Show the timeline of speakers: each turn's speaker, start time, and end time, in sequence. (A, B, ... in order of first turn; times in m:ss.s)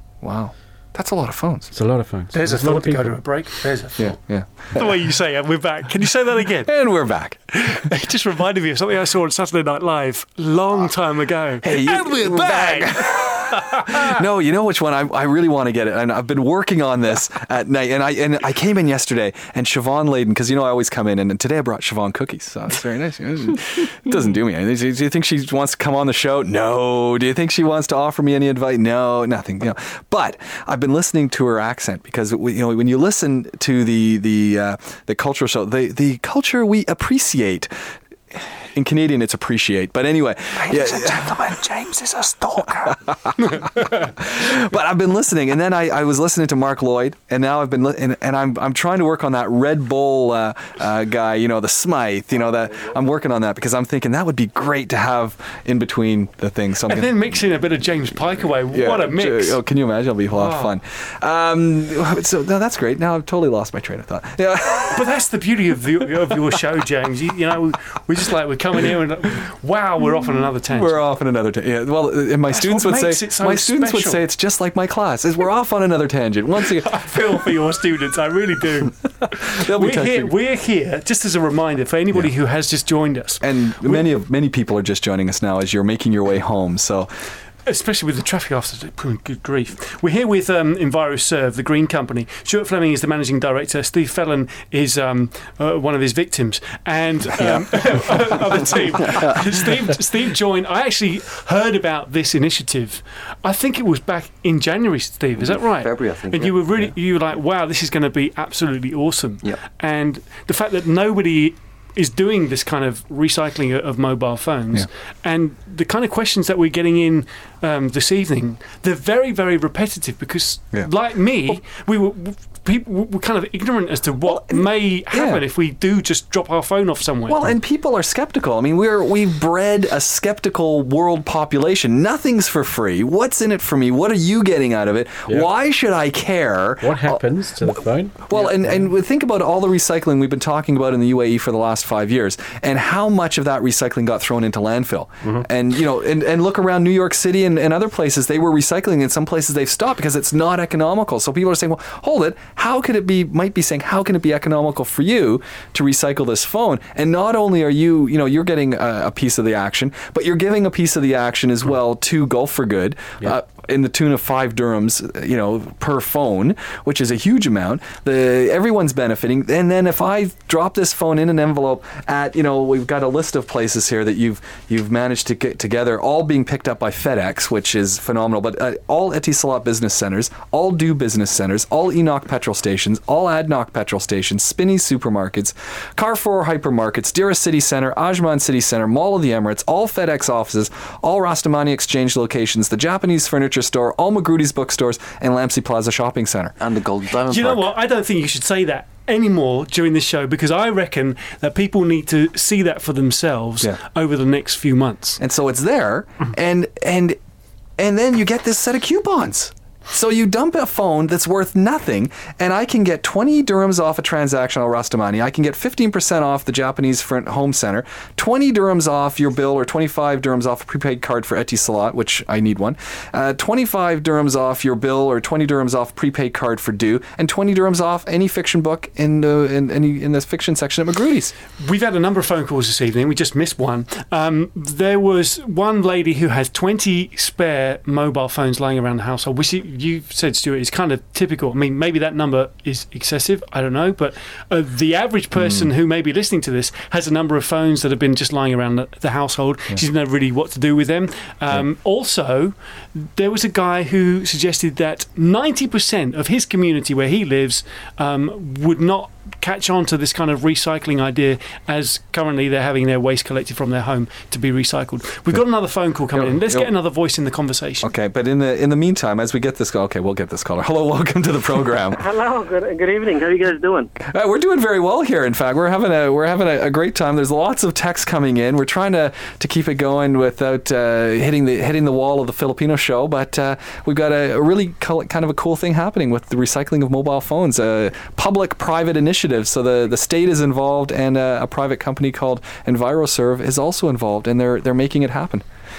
0:00.2-0:01.7 A
0:01.7-0:03.4 B
0:02.3-0:04.0 C
0:04.0-0:04.8 A
0:04.7-0:06.8 C
0:06.7-0:07.4 A
0:07.5-0:14.1 C
0:11.6-0:37.7 A
0:38.3-0:57.2 A
0:43.4-0:44.1 C
0:56.9-0:59.6 C
0:58.7-1:05.1 A
1:00.3-1:00.7 C
1:04.9-1:11.0 C
1:10.7-1:17.3 A
1:12.5-1:14.2 C
1:16.8-1:24.1 C
1:19.2-1:20.3 A
1:23.4-1:27.3 A
1:27.6-2:07.5 C
1:37.5-1:38.0 A
1:45.4-1:46.7 D
2:04.2-2:05.4 A
2:07.3-3:16.5 A
2:16.8-2:18.9 B
3:16.6-3:17.6 D
3:17.3-3:25.2 C
3:25.2-3:27.2 A
3:27.8-3:51.4 A
3:51.6-4:27.9 C
4:05.4-4:05.7 A
4:26.1-4:26.7 A
4:27.8-4:32.0 A
4:31.9-4:33.9 E
4:34.0-4:55.4 A